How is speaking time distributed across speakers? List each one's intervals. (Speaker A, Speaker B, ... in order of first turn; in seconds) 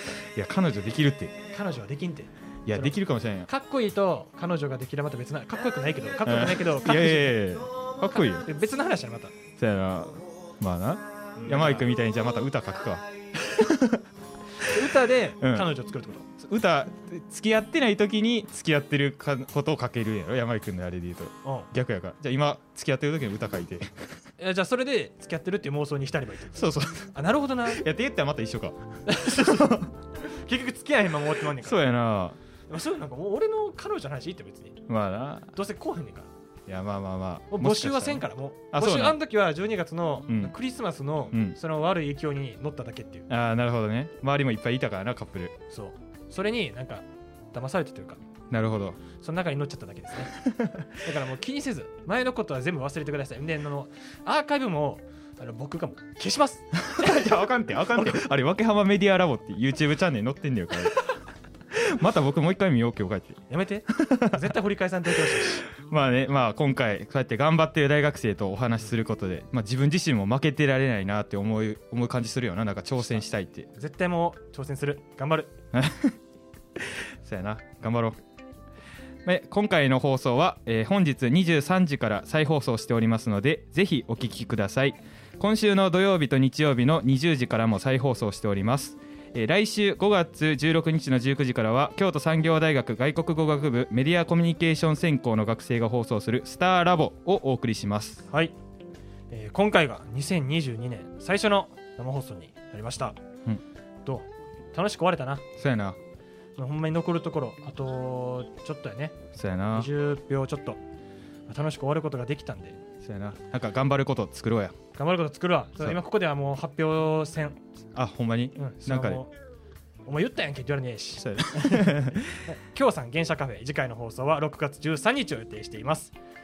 Speaker A: 0.4-1.4, 2.7-3.5, 6.2-8.5, 9.6-14.0, 15.4-15.7, 16.4-24.0, 26.6-27.1, 27.7-29.9, 31.6-32.4, 34.9-35.5, 36.7-39.2, 40.3-40.5, 43.3-45.6, 48.5-49.0, 50.5-50.9, 56.9-61.0, 61.7-63.4, 64.0-64.4, 65.3-73.7, 75.7-76.2, 77.2-78.2, 79.2-98.2, 105.6-106.0, 109.4-109.9, 113.0-114.8, 118.0-119.2, 121.2-122.4
Speaker B: 1.5-7.4, 8.2-9.3, 11.4-11.9, 14.6-16.3, 24.4-27.8, 29.1-31.8, 32.7-34.8, 35.5-36.3, 37.5-43.3, 45.7-48.2, 49.1-50.3, 51.0-57.3, 58.0-58.2, 63.5-65.7, 73.8-75.5, 99.3-103.2, 104.0-105.5, 106.6-109.2, 109.7-110.8, 111.5-112.8, 115.0-117.6, 118.6-119.3, 120.1-126.1